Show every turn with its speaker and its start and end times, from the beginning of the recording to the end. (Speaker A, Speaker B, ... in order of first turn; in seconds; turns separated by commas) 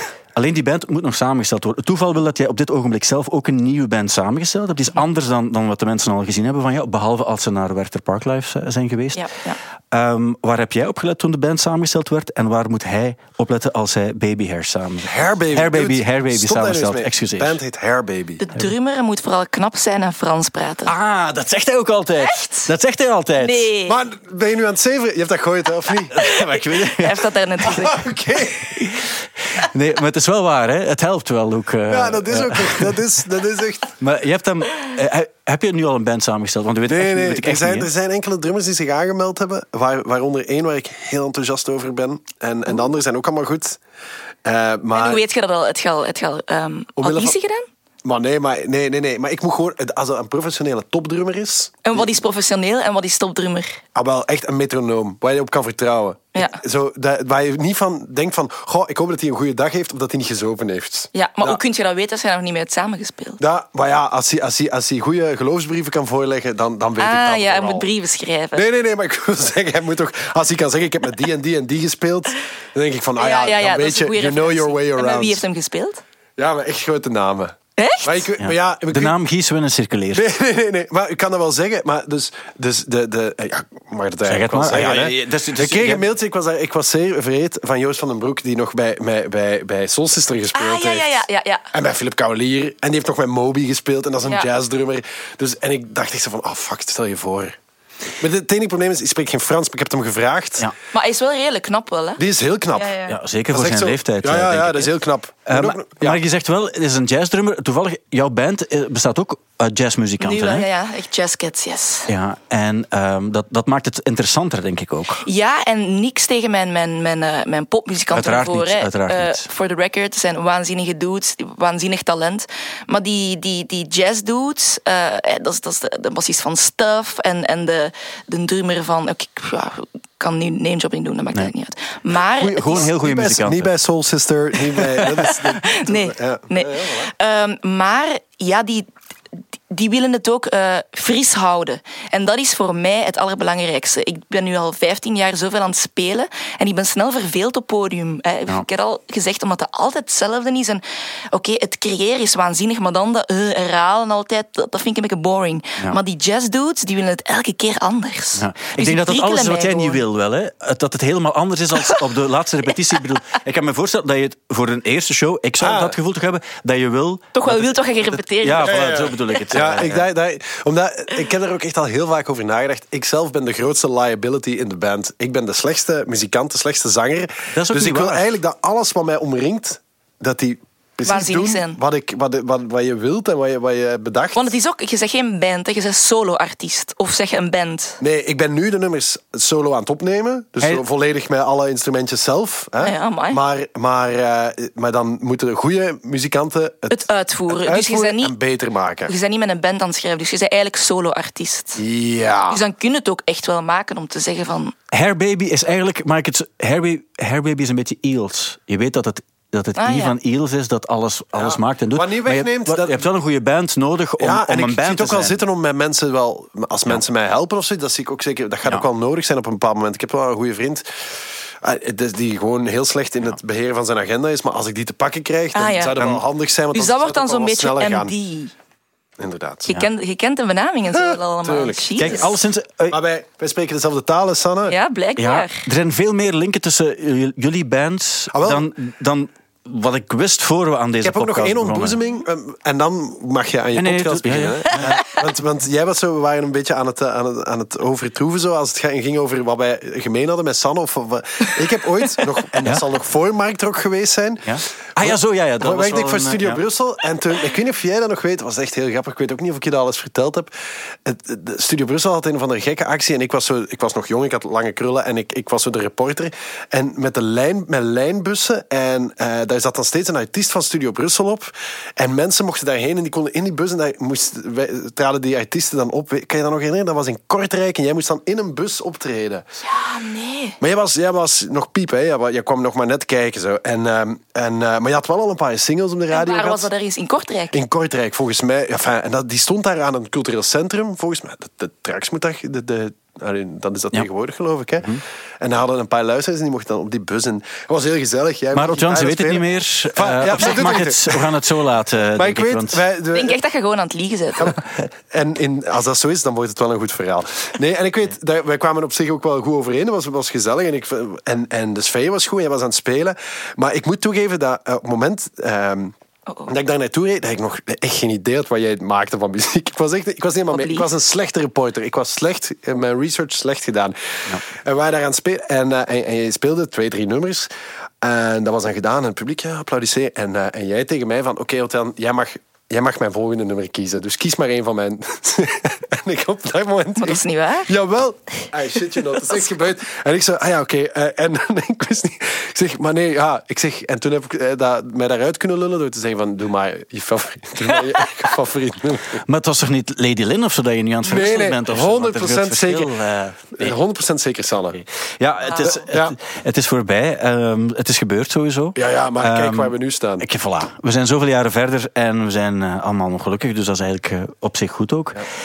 Speaker A: 0.3-9.3, Speaker B: 9.2-9.6, Speaker A: 9.9-17.6, Speaker C: 15.0-18.4, Speaker B: 18.4-20.9, Speaker A: 20.9-23.7, Speaker B: 22.2-22.7, Speaker B: 23.4-24.0, Speaker C: 23.9-26.3, Speaker A: 26.1-27.3, Speaker B: 26.2-28.1, Speaker C: 27.6-28.9, Speaker A: 28.8-33.0, Speaker C: 31.9-33.9, Speaker A: 34.0-37.9, Speaker C: 36.9-43.8, Speaker C: 44.4-45.2, Speaker B: 44.9-47.6, Speaker C: 47.0-47.4, Speaker C: 48.0-52.1, Speaker B: 51.8-53.8, Speaker C: 53.9-61.6, Speaker B: 56.3-56.6, Speaker B: 61.1-63.4, Speaker C: 63.4-67.9, Speaker B: 67.0-68.6, Speaker C: 68.5-75.4, Speaker B: 73.2-76.0, Speaker C: 76.4-79.2, Speaker B: 77.8-78.2, Speaker A: 78.4-80.2, Speaker C: 80.1-91.1, Speaker A: 84.2-86.0, Speaker B: 90.5-91.7, Speaker C: 91.7-97.6, Speaker C: 98.2-100.7, Speaker B: 100.9-102.2, Speaker C: 102.2-102.9, Speaker B: 102.7-103.2, Speaker A: 103.1-104.9, Speaker C: 103.5-106.2, Speaker A: 105.5-110.7, Speaker B: 110.2-112.1, Speaker A: 112.1-115.2, Speaker B: 115.2-132.9, Speaker A: 118.1-119.5, Speaker C: 132.4-137.1, Speaker A: 132.6-133.7, Speaker B: 135.2-138.9, Speaker B: 139.7-160.0, Speaker A: 158.4-170.1, Speaker C: 165.6-165.9, Speaker B: 167.3-169.0, Speaker C: 168.6-184.5, Speaker A: 177.5-178.3, Speaker B: 181.1-181.8, Speaker B: 184.3-188.0, Speaker C: 188.0-199.1, Speaker B: 192.8-193.4, Speaker B: 196.9-198.3, Speaker B: 199.1-201.8, Speaker C: 201.8-202.6, Speaker B: 202.5-204.7, Speaker A: 204.9-215.4, Speaker B: 209.8-210.1, Speaker C: 211.3-213.0, Speaker C: 214.2-220.8, Speaker C: 221.6-228.1, Speaker B: 225.5-225.9, Speaker B: 226.7-228.5, Speaker C: 229.2-229.7, Speaker B: 229.7-232.3, Speaker C: 230.9-232.3, Speaker A: 232.0-233.0, Speaker C: 232.9-234.8, Speaker B: 234.7-235.6, Speaker A: 235.2-242.0, Speaker C: 238.3-238.7, Speaker C: 241.0-260.5, Speaker A: 243.7-245.2, Speaker A: 254.4-256.6, Speaker C: 261.0-279.4, Speaker B: 279.6-280.6, Speaker C: 280.6-286.7, Speaker B: 286.1-287.6, Speaker C: 287.5-301.4, Speaker A: 298.5-302.8, Speaker C: 302.1-303.4, Speaker B: 303.1-304.6, Speaker C: 304.4-315.9, Speaker C: 316.5-327.5, Speaker B: 320.5-320.9, Speaker C: 328.0-349.2, Speaker B: 337.0-337.7, Speaker A: 349.3-353.7, Speaker C: 351.0-352.9, Speaker C: 353.5-354.8, Speaker A: 354.7-365.2, Speaker C: 355.6-356.2, Speaker C: 358.8-360.3